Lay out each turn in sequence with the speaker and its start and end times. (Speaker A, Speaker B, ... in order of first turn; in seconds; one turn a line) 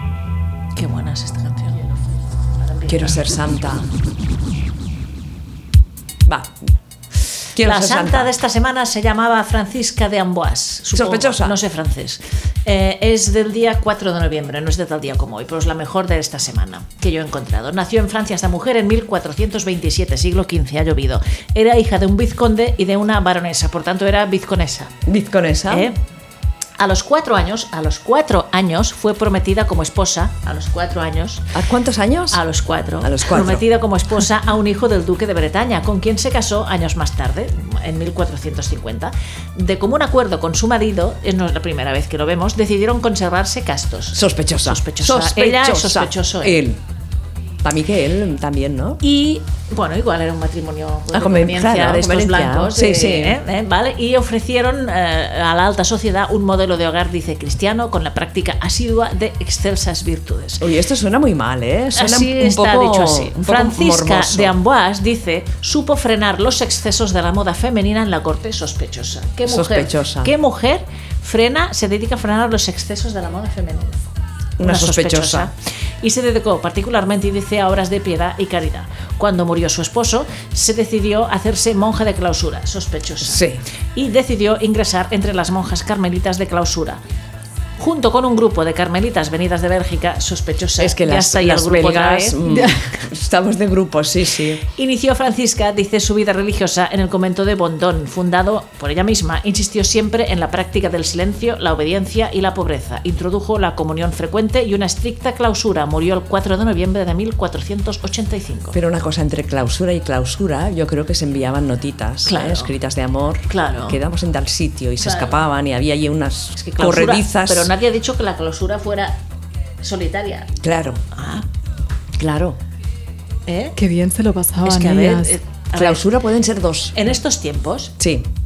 Speaker A: 0.7-1.9
Speaker A: 2.6-3.2
Speaker B: 2.9-3.9
Speaker B: 6.2-6.6
Speaker B: 7.5-8.3
Speaker A: 7.6-24.9
Speaker B: 10.9-11.6
Speaker B: 25.1-25.9
Speaker A: 25.7-26.0
Speaker A: 26.8-31.5
Speaker B: 31.5-32.4
Speaker A: 32.3-46.6
Speaker B: 33.0-33.6
Speaker B: 44.1-46.8
Speaker B: 47.6-49.0
Speaker A: 49.0-60.6
Speaker B: 51.1-53.4
Speaker B: 60.6-64.5
Speaker A: 61.9-74.0
Speaker B: 69.4-70.3
Speaker B: 74.6-75.5
Speaker A: 74.6-87.0
Speaker B: 83.2-83.6
Speaker A: 87.8-92.4
Speaker B: 90.8-94.6
Speaker C: 92.5-92.8
Speaker A: 94.6-108.8
Speaker B: 108.7-117.7
Speaker A: 112.2-112.7
Speaker A: 113.5-114.0
Speaker A: 115.0-115.4
Speaker A: 116.5-119.2
Speaker A: 119.8-120.5
Speaker B: 120.6-121.0
Speaker A: 121.1-121.4
Speaker B: 122.2-122.6
Speaker A: 123.5-123.8
Speaker C: 123.8-125.3
Speaker A: 124.6-126.0
Speaker B: 125.8-127.0
Speaker A: 126.9-127.9
Speaker B: 128.0-128.2